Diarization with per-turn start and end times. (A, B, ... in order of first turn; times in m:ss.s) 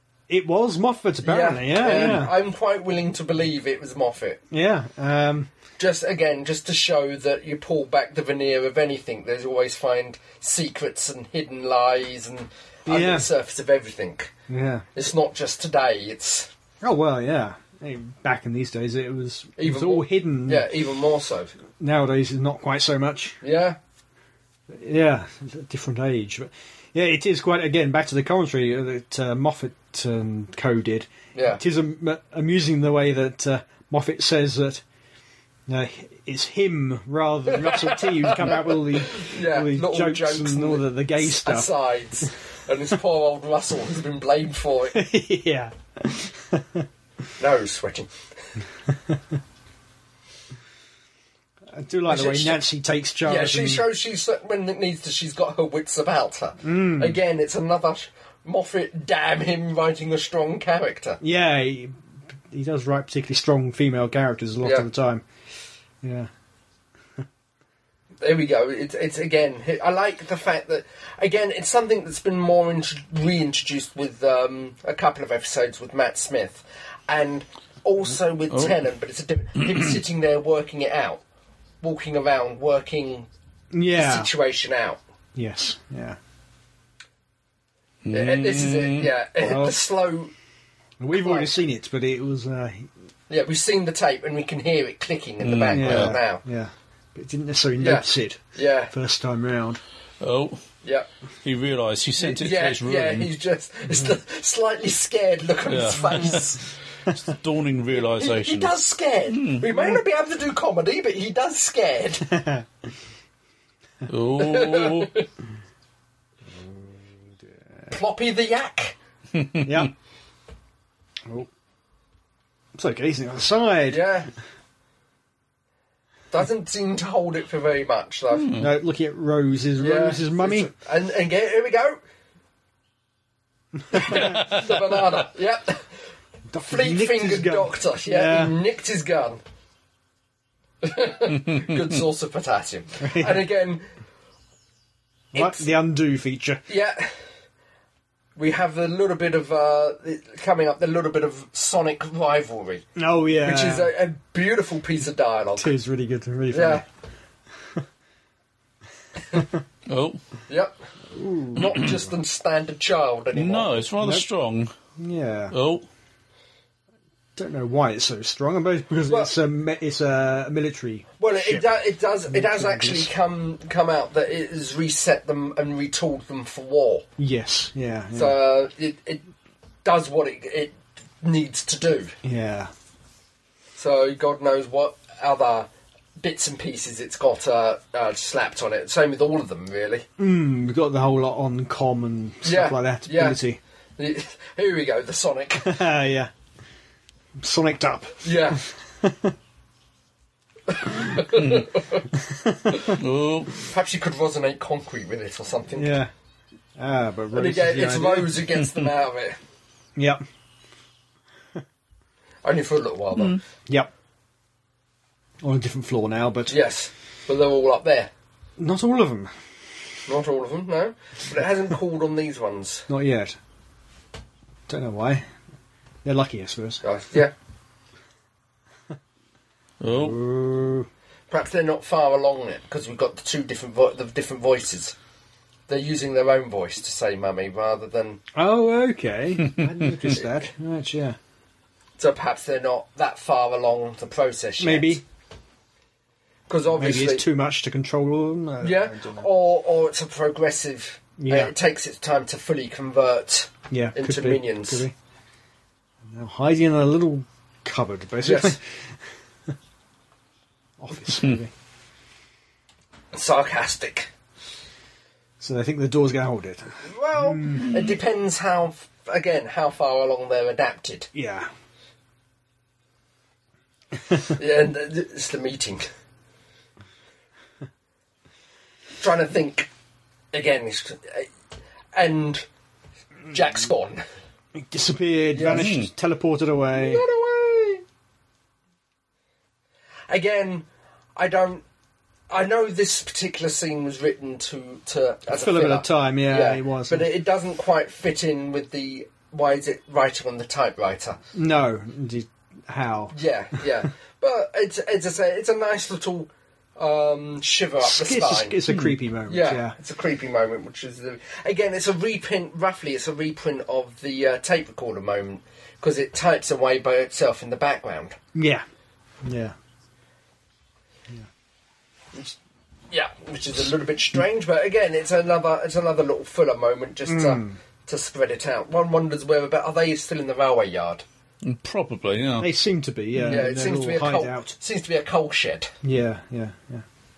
0:00.3-0:02.3 A
0:01.2-0:04.4 B
0:04.5-0:05.5 A
0:05.8-0:14.3 B
0:12.9-0:13.2 A
0:14.5-0:14.8 A
0:14.9-0:16.5 B
0:16.8-0:20.7 A
0:19.6-0:21.5 B
0:21.8-0:23.4 A
0:23.4-0:23.8 B
0:24.7-0:34.8 A
0:31.3-0:31.6 B
0:35.7-0:41.7 A
0:37.5-0:45.0 B
0:44.9-0:46.9 A
0:47.4-0:48.1 B
0:51.7-0:53.8 A
0:52.1-0:52.6 B
0:53.2-1:01.2 B
0:56.6-0:57.2 A
1:01.2-1:05.2 A
1:06.0-1:06.3 A
1:08.2-1:21.2 B
1:21.8-1:23.3 B
1:23.7-1:24.3 A
1:23.9-1:25.0 B
1:25.3-1:26.2 A
1:28.0-1:29.1 C
1:28.1-1:30.3 B
1:29.4-1:29.7 A
1:31.0-1:32.9 A
1:31.1-1:31.6 B
1:33.3-1:36.4 B
1:35.4-1:36.2 C
1:35.7-1:39.8 A
1:37.8-1:38.9 B
1:40.2-1:40.6 C
1:41.4-1:43.3 C
1:42.2-1:46.6 B
1:45.7-1:46.5 C
1:47.0-1:48.7 C
1:48.1-1:52.3 B
1:49.3-1:49.6 C
1:52.2-1:52.7 A
1:54.1-1:55.1 C
1:54.4-1:55.2 B
1:56.5-1:57.9 A
1:57.9-1:59.0 B
1:59.4-1:59.8 C
1:59.6-1:59.9 A
2:02.8-2:04.0 A
2:03.9-2:04.3 B
2:06.3-2:08.5 B
2:08.3-2:08.7 C
2:08.6-2:10.7 A
2:09.8-2:12.0 B
2:13.9-2:14.2 A
2:13.9-2:15.9 B
2:14.0-2:14.9 C
2:16.5-2:18.6 A
2:16.6-2:19.4 B
2:20.8-2:23.8 B
2:23.0-2:23.5 A
2:25.3-2:25.6 B
2:25.3-2:26.6 A
2:26.7-2:27.1 B
2:28.4-2:32.8 B
2:33.0-2:33.9 A
2:33.4-2:35.7 B
2:35.6-2:36.8 A
2:36.5-2:36.8 B
2:39.3-2:39.6 A
2:39.9-2:40.2 C
2:40.5-2:40.7 B
2:41.1-2:41.9 A
2:41.5-2:43.8 B
2:43.3-2:44.7 C
2:45.0-2:45.5 A
2:45.5-2:45.8 C
2:47.4-2:51.6 A
2:51.2-2:57.0 B
2:52.3-2:53.1 A
2:57.2-2:58.4 A
2:58.1-2:59.2 B
2:59.8-3:02.2 B
3:02.2-3:02.7 A
3:03.8-3:05.7 B
3:06.2-3:10.0 B
3:10.2-3:13.6 A
3:12.4-3:13.4 B
3:14.0-3:15.8 B
3:15.6-3:16.3 A
3:17.4-3:19.3 A
3:18.2-3:18.6 B
3:20.7-3:22.1 B
3:21.4-3:21.6 C
3:22.1-3:23.0 A
3:22.7-3:23.0 B
3:22.9-3:23.6 C
3:23.6-3:26.0 B
3:25.8-3:26.1 A
3:26.8-3:28.4 A
3:27.3-3:29.4 B
3:30.0-3:30.2 A
3:32.4-3:33.4 B
3:35.4-3:36.5 A
3:36.5-3:38.1 B
3:38.6-3:39.3 A
3:40.1-3:42.9 B
3:42.9-3:43.4 A
3:44.7-3:45.3 A
3:46.0-3:46.8 A
3:46.8-3:47.3 B
3:49.8-3:50.2 C
3:49.9-3:50.9 A
3:51.3-3:54.9 B
3:55.7-3:58.2 B
3:58.3-4:01.2 A
3:59.4-3:59.7 C
4:02.0-4:05.0 B
4:04.6-4:05.0 A
4:06.5-4:07.2 B
4:06.7-4:09.3 A
4:08.6-4:14.8 B
4:11.2-4:11.5 A
4:13.7-4:14.9 A
4:16.1-4:19.0 A
4:18.2-4:18.6 B
4:20.8-4:21.5 A
4:23.1-4:24.1 B
4:25.4-4:27.8 A
4:26.8-4:31.1 B
4:31.1-4:31.5 A
4:34.2-4:35.8 B
4:39.0-4:39.7 B
4:40.3-4:41.3 B
4:41.9-4:42.4 B
4:43.3-4:44.0 B
4:44.5-4:47.0 A
4:45.3-4:45.7 B
4:45.5-4:45.9 C
4:46.7-4:47.8 B
4:50.1-4:51.6 B
4:52.3-5:01.2 B
4:55.3-4:57.1 A
5:01.3-5:03.1 A
5:03.1-5:08.6 B
5:07.8-5:09.7 A
5:08.7-5:08.9 C
5:09.3-5:18.2 B
5:18.3-5:18.6 A
5:19.2-5:19.6 A
5:22.9-5:31.0 B
5:27.0-5:27.6 A
5:31.4-5:32.5 C
5:32.4-5:34.5 A
5:33.2-5:35.7 B
5:35.8-5:36.8 A